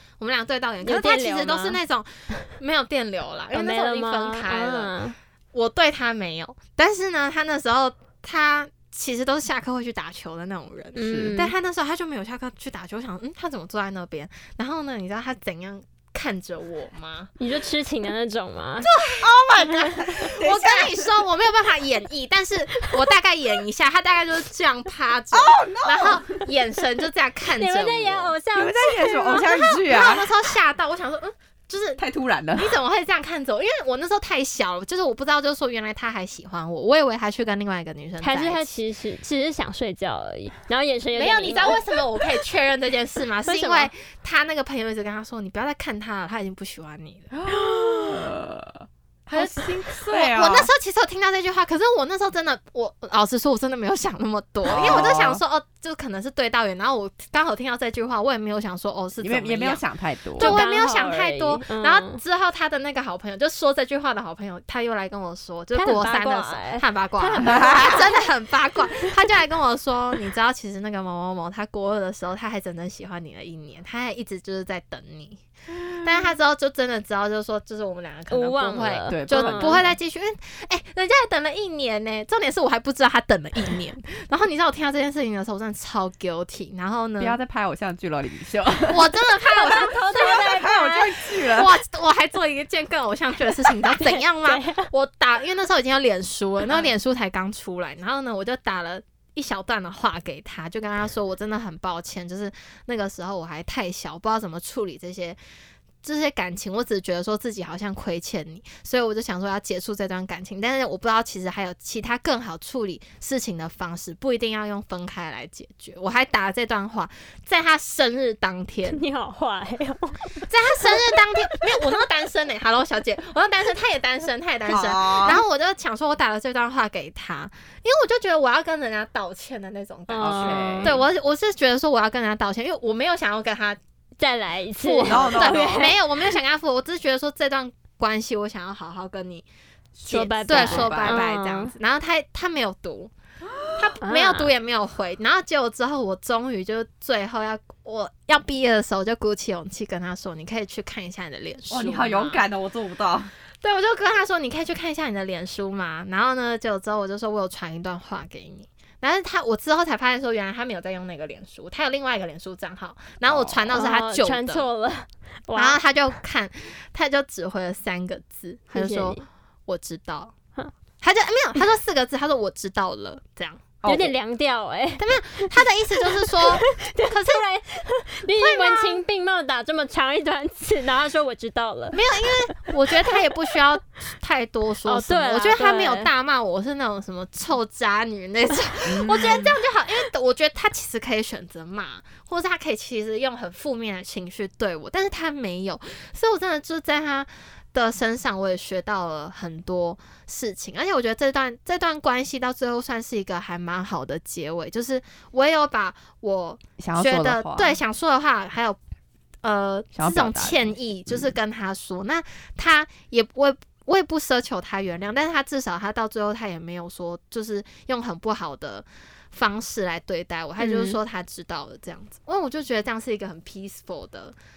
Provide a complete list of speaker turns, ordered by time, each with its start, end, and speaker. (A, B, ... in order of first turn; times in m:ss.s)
0:00.2-0:04.9 A
0:00.8-0:01.8 B
0:03.5-0:05.1 B
0:05.5-0:17.3 A
0:10.9-0:11.5 B
0:11.1-0:11.3 C
0:17.4-0:18.9 B
0:18.8-0:28.4 A
0:19.2-0:21.1 C
0:25.3-0:26.4 C
0:27.6-0:29.5 B
0:28.5-0:30.3 C
0:29.2-0:32.0 A
0:32.0-0:32.7 C
0:32.6-0:38.7 A
0:38.2-0:41.8 B
0:41.1-0:47.3 A
0:43.4-0:43.9 B
0:47.3-0:50.7 C
0:49.3-0:59.8 A
0:54.6-0:55.4 C
0:59.2-1:00.6 C
1:00.4-1:02.2 B
1:00.4-1:27.4 A
1:05.7-1:08.0 B
1:07.4-1:08.0 C
1:18.3-1:19.8 B
1:19.1-1:19.9 C
1:27.2-1:29.2 C
1:28.9-1:45.4 A
1:29.5-1:31.0 B
1:29.8-1:31.7 C
1:34.4-1:34.9 B
1:46.0-1:59.0 A
1:58.9-2:00.3 B
2:00.4-2:13.8 A
2:04.7-2:05.4 C
2:10.1-2:11.0 B
2:10.2-2:11.0 C
2:14.2-2:16.0 B
2:14.8-2:15.8 C
2:15.0-2:19.4 A
2:20.0-2:21.2 C
2:20.1-2:23.1 A
2:20.1-2:21.7 B
2:23.4-2:23.8 C
2:23.8-2:32.4 A
2:24.0-2:24.5 B
2:31.7-2:33.3 C
2:33.6-2:44.7 A
2:43.3-2:43.6 C
2:43.7-2:45.8 B
2:45.5-2:50.3 A
2:48.7-2:49.2 B
2:51.0-2:53.6 A
2:53.8-2:54.1 C
2:53.8-2:55.6 B
2:55.0-2:57.4 A
2:56.2-3:03.1 B
2:58.3-2:59.0 A
3:01.9-3:28.8 A
3:04.8-3:06.1 B
3:08.8-3:09.6 C
3:26.8-3:27.8 C
3:29.4-3:44.3 A
3:30.0-3:31.3 C
3:40.6-3:41.0 B